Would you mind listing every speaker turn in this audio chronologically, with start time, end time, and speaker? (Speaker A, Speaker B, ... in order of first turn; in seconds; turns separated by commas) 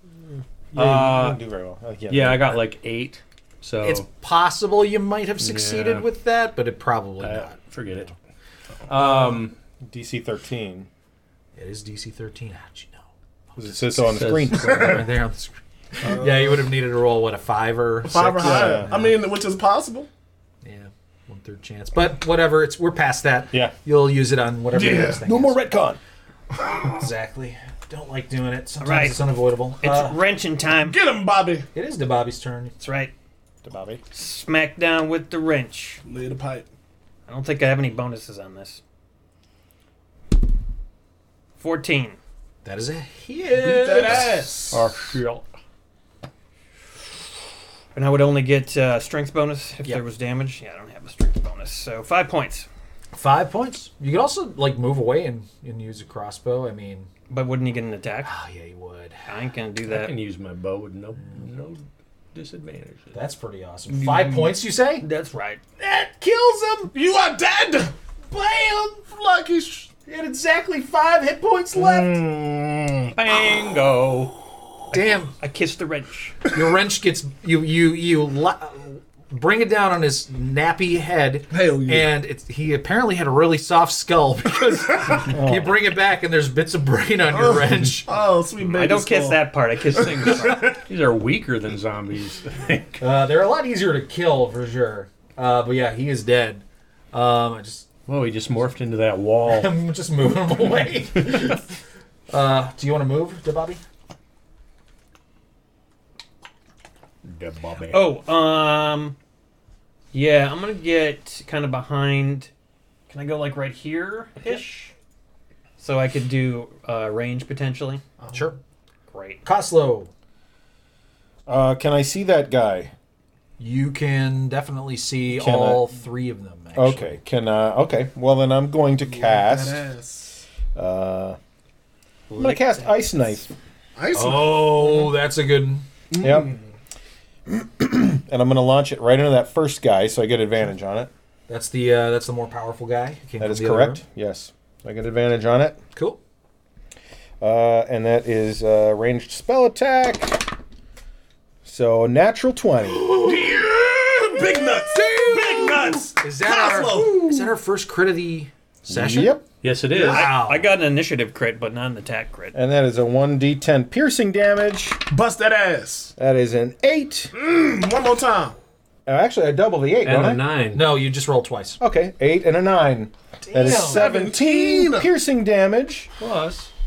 Speaker A: 0.4-2.6, Speaker B: 0.8-1.4, Speaker B: 2.1-4.1, Speaker C: 3.8-7.6, Speaker B: 5.4-6.0, Speaker B: 7.2-8.1, Speaker B: 8.9-9.6, Speaker A: 9.8-10.9, Speaker C: 11.6-19.2, Speaker A: 13.6-15.1, Speaker B: 14.0-15.1, Speaker D: 16.0-16.7, Speaker D: 18.0-20.1, Speaker A: 18.4-18.9, Speaker C: 20.6-25.7, Speaker D: 24.7-25.2, Speaker A: 25.2-26.0, Speaker D: 26.6-26.9, Speaker C: 26.9-30.2, Speaker E: 28.8-29.3, Speaker E: 29.8-31.0, Speaker D: 30.8-31.7, Speaker C: 31.7-32.8, Speaker E: 32.8-33.1, Speaker A: 33.6-34.0, Speaker E: 34.1-36.0, Speaker D: 36.0-36.7, Speaker E: 37.3-38.8, Speaker E: 41.6-42.2, Speaker C: 42.6-44.5, Speaker D: 43.5-44.9, Speaker B: 44.1-45.5, Speaker E: 47.9-52.7, Speaker C: 53.2-57.1, Speaker E: 57.3-58.3, Speaker C: 58.2-59.2, Speaker E: 59.3-60.1, Speaker B: 59.9-61.8, Speaker B: 62.4-63.2, Speaker C: 63.1-65.1, Speaker E: 65.0-65.6, Speaker C: 65.8-66.9, Speaker D: 66.9-67.9, Speaker C: 68.3-69.0, Speaker D: 69.1-69.9, Speaker C: 70.1-72.2, Speaker D: 71.8-73.1, Speaker B: 73.1-74.4, Speaker E: 74.9-76.4, Speaker C: 74.9-75.3, Speaker C: 76.5-88.1, Speaker D: 81.5-82.1, Speaker A: 85.3-85.8, Speaker D: 87.3-90.4, Speaker E: 88.7-90.8, Speaker B: 90.6-93.0, Speaker C: 93.0-97.9, Speaker B: 98.1-99.7, Speaker C: 99.5-101.6, Speaker C: 102.3-103.8, Speaker B: 107.2-108.1, Speaker E: 107.9-109.2, Speaker E: 110.1-112.5, Speaker E: 113.1-114.9, Speaker E: 115.8-118.0, Speaker D: 118.2-118.5, Speaker C: 118.3-118.6, Speaker E: 119.1-119.4, Speaker C: 119.4-120.1, Speaker A: 121.5-122.9, Speaker C: 123.6-127.2, Speaker A: 125.3-125.9, Speaker A: 126.8-129.8, Speaker D: 129.1-130.4, Speaker A: 130.8-131.4, Speaker E: 132.3-133.0, Speaker A: 132.4-133.5, Speaker D: 134.0-135.1, Speaker C: 134.1-135.9, Speaker D: 136.1-136.6, Speaker A: 136.2-136.5, Speaker A: 137.5-141.1, Speaker C: 141.5-144.0, Speaker A: 143.4-145.8, Speaker C: 145.9-146.2, Speaker A: 147.4-150.5, Speaker A: 151.7-153.2, Speaker D: 153.1-157.5, Speaker C: 156.2-159.4, Speaker A: 158.9-159.4, Speaker B: 159.5-160.3, Speaker C: 159.9-160.7, Speaker E: 160.0-162.5, Speaker A: 162.5-165.0, Speaker D: 165.1-166.1, Speaker A: 166.2-167.3, Speaker D: 167.3-168.6, Speaker A: 169.1-170.4, Speaker B: 170.0-170.9, Speaker C: 170.7-171.8, Speaker A: 171.8-176.1, Speaker C: 173.4-174.1, Speaker D: 173.7-175.1, Speaker B: 176.2-176.7